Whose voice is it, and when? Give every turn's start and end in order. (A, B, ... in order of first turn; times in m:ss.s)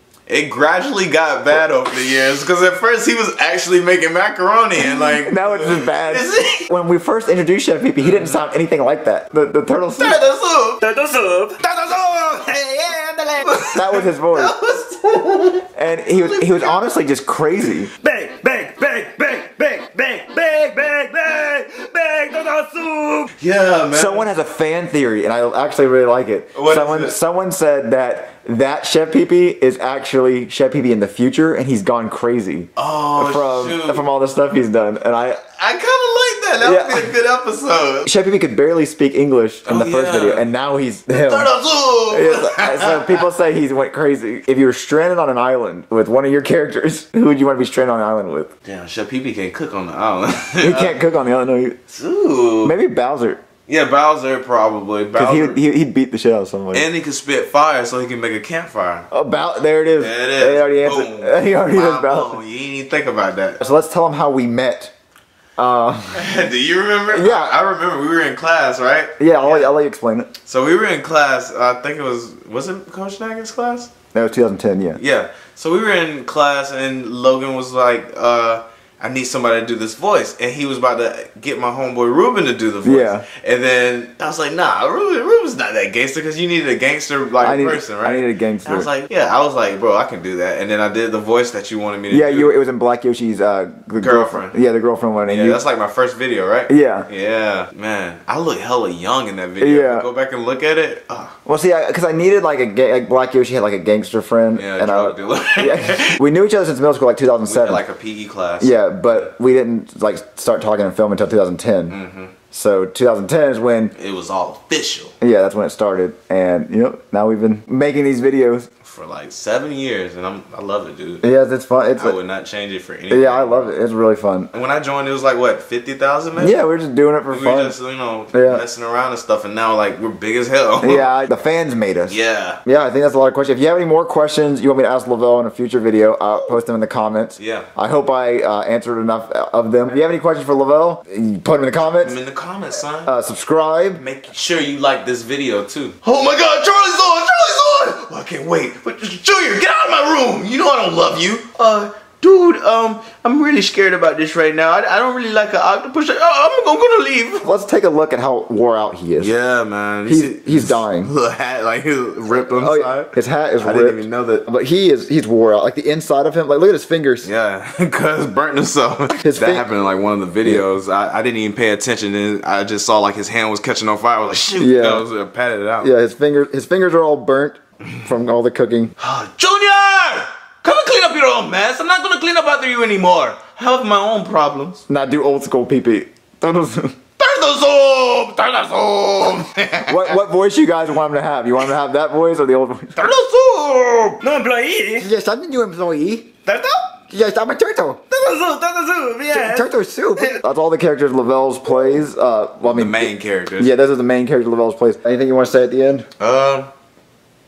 0:00.3-0:06.7 A
0:04.8-0:10.2 B
0:08.0-0:08.4 A
0:10.0-0:10.8 A
0:10.8-0:11.6 C
0:11.6-0:12.8 A
0:12.5-0:13.5 C
0:13.4-0:16.8 A
0:13.7-0:14.6 B
0:15.8-0:17.9 B
0:18.0-0:23.3 C
0:23.4-0:24.3 A
0:23.9-0:35.4 B
0:26.6-0:27.2 A
0:32.8-0:34.0 A
0:35.6-0:38.1 A
0:36.6-0:37.1 B
0:38.0-0:41.5 B
0:39.6-0:40.5 A
0:41.1-0:43.3 A
0:42.1-0:48.5 B
0:48.6-0:51.0 A
0:50.6-0:51.8 B
0:51.9-0:52.8 A
0:52.6-0:53.4 B
0:53.7-0:55.6 A
0:55.2-0:56.9 B
0:56.7-0:59.1 A
0:59.1-1:02.4 B
1:00.0-1:03.6 A
1:03.6-1:04.9 B
1:05.6-1:06.3 B
1:06.1-1:09.7 A
1:07.1-1:07.6 B
1:09.2-1:10.3 B
1:10.5-1:13.9 A
1:14.1-1:15.0 B
1:15.0-1:32.6 A
1:22.8-1:23.3 B
1:27.4-1:28.9 B
1:32.1-1:35.6 B
1:34.0-1:34.6 A
1:35.2-1:41.4 A
1:36.7-1:37.1 B
1:39.6-1:40.1 B
1:41.5-1:47.8 B
1:44.6-1:46.2 A
1:47.4-1:49.3 A
1:48.6-1:52.0 B
1:51.9-1:52.4 A
1:52.5-1:53.9 B
1:54.0-1:55.1 A
1:55.2-1:58.7 B
1:58.8-2:01.2 A
2:01.2-2:02.2 B
2:02.0-2:03.7 A
2:03.1-2:04.5 B
2:04.5-2:06.6 A
2:06.4-2:07.8 B
2:07.3-2:11.1 A
2:08.3-2:08.6 B
2:10.8-2:22.2 B
2:12.1-2:12.6 A
2:17.4-2:17.7 A
2:22.0-2:23.1 A
2:23.1-2:24.0 B
2:24.0-2:37.5 A
2:37.4-2:39.3 B
2:39.2-2:44.4 A
2:40.1-2:41.1 B
2:42.3-2:47.3 B
2:47.2-2:55.9 A
2:49.2-2:49.7 B
2:54.6-2:55.1 B
2:55.8-2:58.9 B
2:59.0-3:04.8 A
3:04.9-3:07.0 B
3:07.2-3:10.2 A
3:09.8-3:13.0 B
3:13.0-3:14.4 A
3:14.2-3:15.1 C
3:15.0-3:16.3 B
3:16.5-3:16.8 A
3:17.1-3:18.1 B
3:18.2-3:18.5 A
3:18.2-3:19.7 C
3:19.3-3:26.1 B
3:22.6-3:23.8 A
3:26.2-3:26.7 A